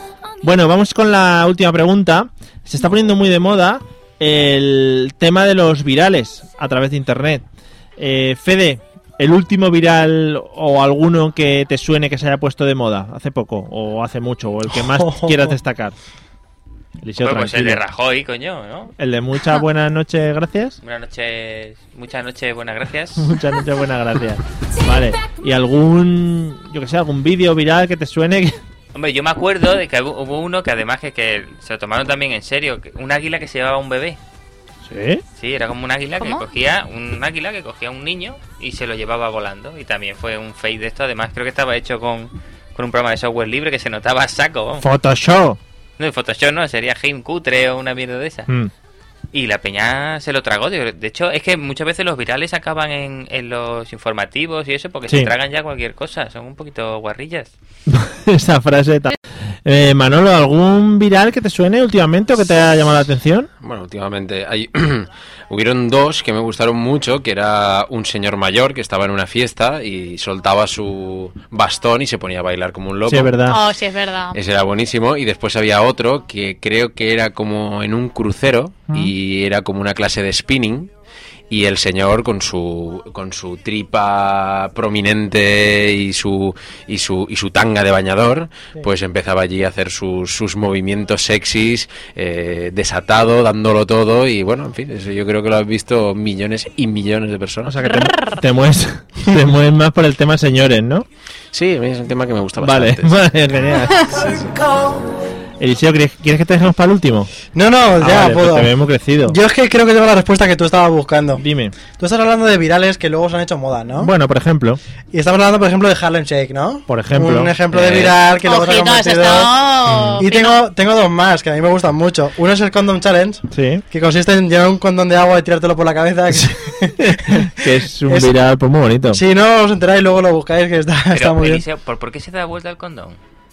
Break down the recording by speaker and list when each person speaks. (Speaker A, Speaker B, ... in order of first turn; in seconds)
Speaker A: 0.4-7.4, 8.0-15.9, 17.0-17.8, 19.0-20.8, 23.2-28.6, 34.9-35.2, 44.8-45.6, 57.9-63.5, 73.1-73.6, 97.6-101.0, 102.6-104.3, 105.6-107.3, 108.0-109.4, 111.4-111.8, 114.0-114.8, 116.9-118.1, 119.8-120.2, 123.5-123.8, 126.3-129.2
Speaker B: 14.7-15.6, 107.5-114.1, 115.1-128.3, 129.1-131.6
Speaker C: 17.2-18.9, 20.8-23.4, 28.9-34.2, 35.4-44.8, 46.0-48.5, 49.3-57.5, 131.1-133.2
Speaker D: 36.2-36.4, 73.5-74.4, 97.9-98.3, 118.4-120.6
Speaker E: 63.6-73.4, 74.3-80.9, 81.5-97.9, 101.5-103.2, 104.2-104.5